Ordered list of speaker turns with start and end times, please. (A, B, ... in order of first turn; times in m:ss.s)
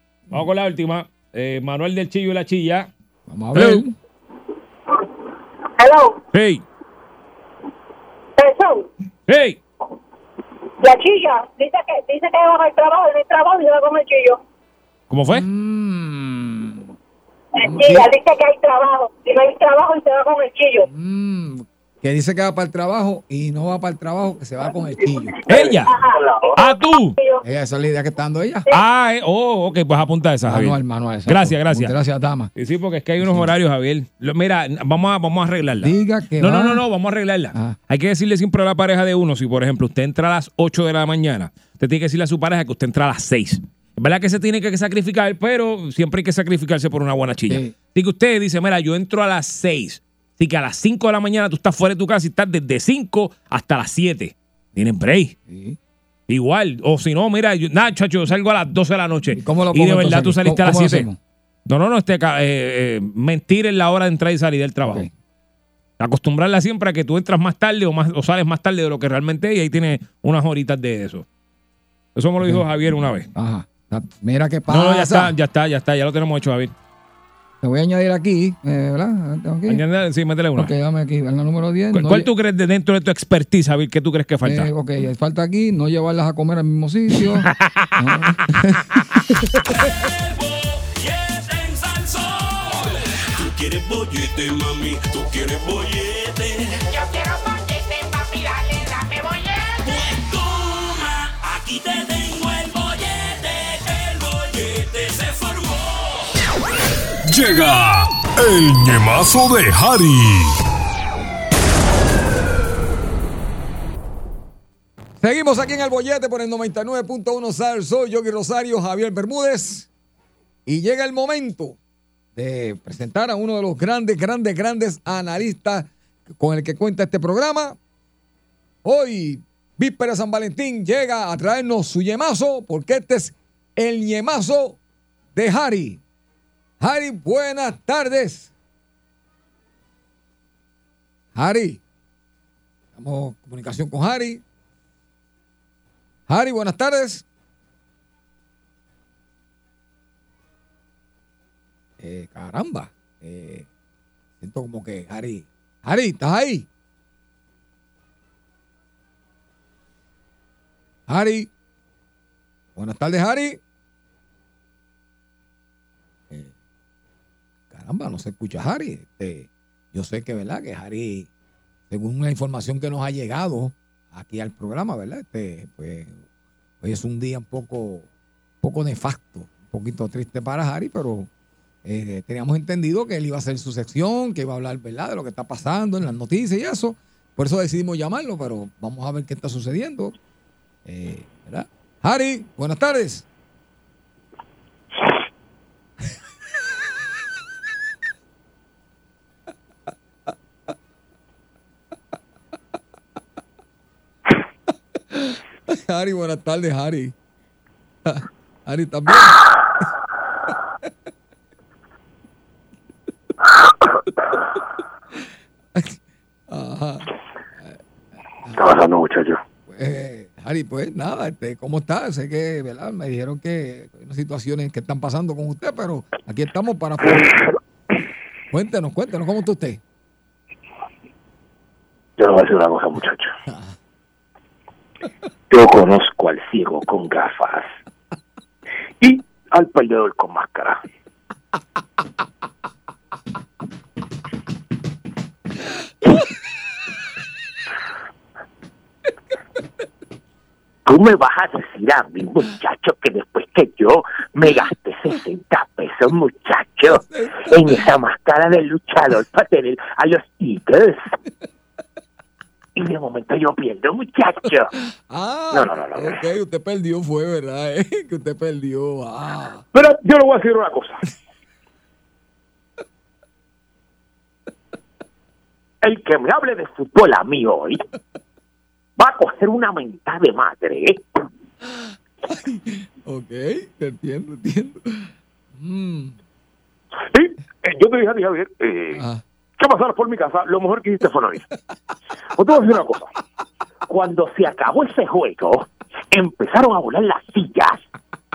0:00.3-0:02.9 A
0:03.3-0:03.9 B
0:03.5-0:03.8 A
0:05.8-0:06.2 C
0:06.3-0:06.6 A
0:08.4-0:08.8 C
0:09.3-0:09.6 A
0:10.8-0:14.4 C
0:15.1-0:15.4 A
0:15.3-0:16.9 B
0:17.6-0:20.9 C
0:17.6-0:18.1 B
0:20.8-0:25.4 B
0:25.5-0:25.9 A
0:25.9-0:26.7 C
0:26.5-0:27.2 A
0:27.4-0:28.7 B
0:28.7-0:31.9 A
0:30.4-0:32.5 B
0:32.5-0:55.3 A
0:33.2-0:33.5 B
0:35.8-0:36.8 B
0:47.5-0:47.7 B
0:55.5-0:55.8 B
0:56.3-1:01.1 A
0:59.3-1:01.2 B
1:01.6-1:05.1 A
1:04.8-1:05.1 B
1:06.0-1:11.2 A
1:12.1-1:13.3 A
1:13.3-1:15.3 B
1:14.7-1:16.7 A
1:17.6-1:19.8 B
1:19.7-1:20.7 A
1:20.6-1:22.3 B
1:21.9-1:24.7 A
1:24.4-1:28.8 B
1:27.6-1:27.9 A
1:30.2-1:36.8 D
1:39.8-1:46.0 D
1:47.2-1:50.6 E
1:55.2-1:59.9 B
2:00.6-2:01.8 B
2:02.4-2:07.8 B
2:08.8-2:14.8 B
2:15.3-2:16.0 B
2:16.8-2:18.5 B
2:21.3-2:21.8 B
2:23.0-2:24.4 B
2:26.3-2:27.2 B
2:32.0-2:33.7 B
2:34.4-2:36.7 B
2:41.1-2:41.5 B
2:42.8-2:43.6 B
2:47.7-2:51.3 B
2:51.9-2:56.2 B
2:56.8-2:58.1 B
2:58.6-3:01.3 B
3:01.8-3:10.1 B
3:10.8-3:13.2 B
3:25.1-3:27.1 B
3:28.0-3:29.4 B
3:36.5-3:37.1 B
3:38.4-3:38.7 B
3:38.6-3:39.4 F
3:39.7-3:47.4 B
3:48.5-3:49.8 B
3:52.2-3:53.3 F
3:55.5-3:57.7 F
3:59.0-4:00.8 F
4:10.8-4:21.0 F
4:16.8-4:17.7 B
4:22.8-4:24.7 F
4:25.1-4:29.6 B
4:25.5-4:26.2 F
4:29.7-4:31.0 F
4:35.8-4:37.8 F
4:39.0-4:41.2 F
4:42.2-4:46.2 B
4:47.1-4:49.0 F
4:48.9-4:49.2 B
4:49.6-4:51.4 F
4:52.4-4:53.1 F
4:53.9-4:57.8 F